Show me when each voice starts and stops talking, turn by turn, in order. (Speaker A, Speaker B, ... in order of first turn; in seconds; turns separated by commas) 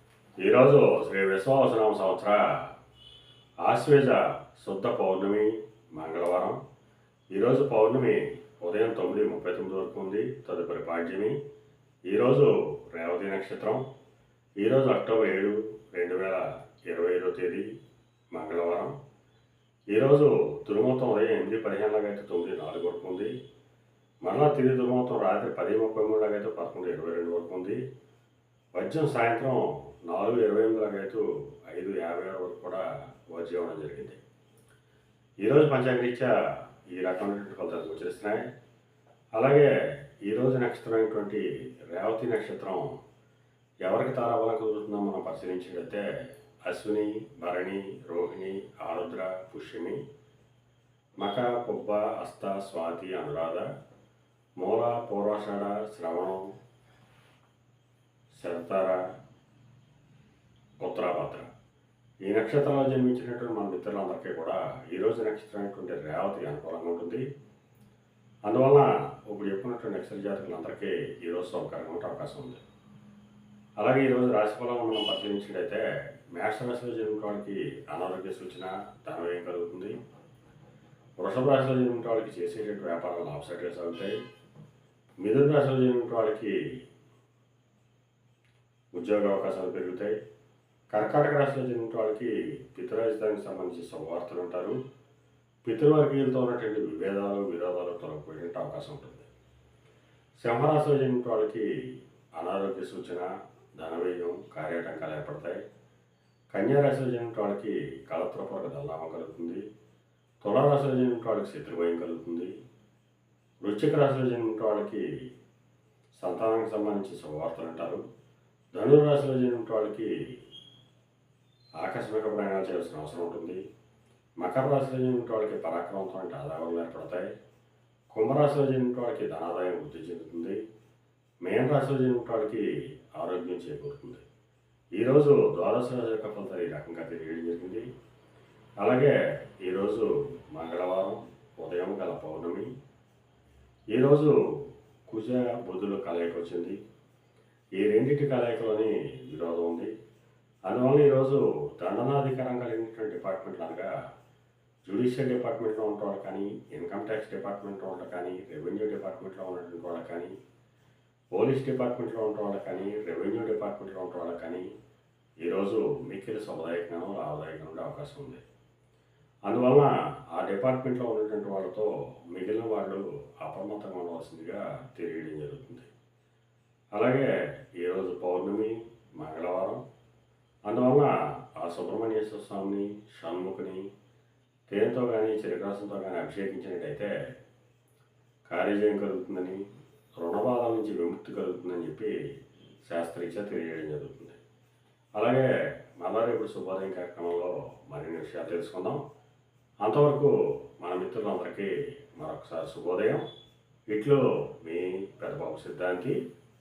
Speaker A: 0.4-2.7, Speaker A: 3.6-6.6, Speaker A: 7.3-11.4, Speaker A: 12.1-13.9, Speaker A: 14.6-17.7, Speaker A: 18.3-19.0, Speaker A: 19.9-23.4, Speaker A: 24.2-27.8, Speaker A: 28.8-34.2, Speaker A: 35.4-38.5, Speaker A: 39.4-39.7, Speaker A: 40.2-43.0, Speaker A: 43.8-46.1, Speaker A: 46.6-50.0, Speaker A: 51.2-53.7, Speaker A: 54.6-56.5, Speaker A: 58.3-59.0, Speaker A: 60.8-61.5, Speaker A: 62.2-67.2, Speaker A: 68.5-72.6, Speaker A: 73.8-79.9, Speaker A: 81.2-84.2, Speaker A: 85.2-86.8, Speaker A: 88.9-90.2, Speaker A: 90.9-94.8, Speaker A: 95.6-99.3, Speaker A: 100.4-105.6, Speaker A: 106.5-109.6, Speaker A: 110.4-112.5, Speaker A: 113.6-115.2, Speaker A: 116.2-118.0, Speaker A: 118.8-120.4, Speaker A: 121.8-123.6, Speaker A: 124.4-127.3, Speaker A: 128.1-130.6, Speaker A: 131.4-134.2, Speaker A: 135.0-137.9, Speaker A: 138.8-142.7, Speaker A: 143.9-146.8, Speaker A: 147.8-149.9, Speaker A: 150.7-153.9, Speaker A: 154.9-160.3, Speaker A: 161.4-164.7, Speaker A: 165.4-168.4, Speaker A: 169.5-175.9, Speaker A: 176.9-179.8, Speaker A: 180.7-183.9, Speaker A: 184.7-187.1, Speaker A: 188.5-189.6, Speaker A: 190.2-192.1, Speaker A: 192.9-194.4, Speaker A: 195.2-199.0, Speaker A: 199.8-203.3, Speaker A: 203.9-206.2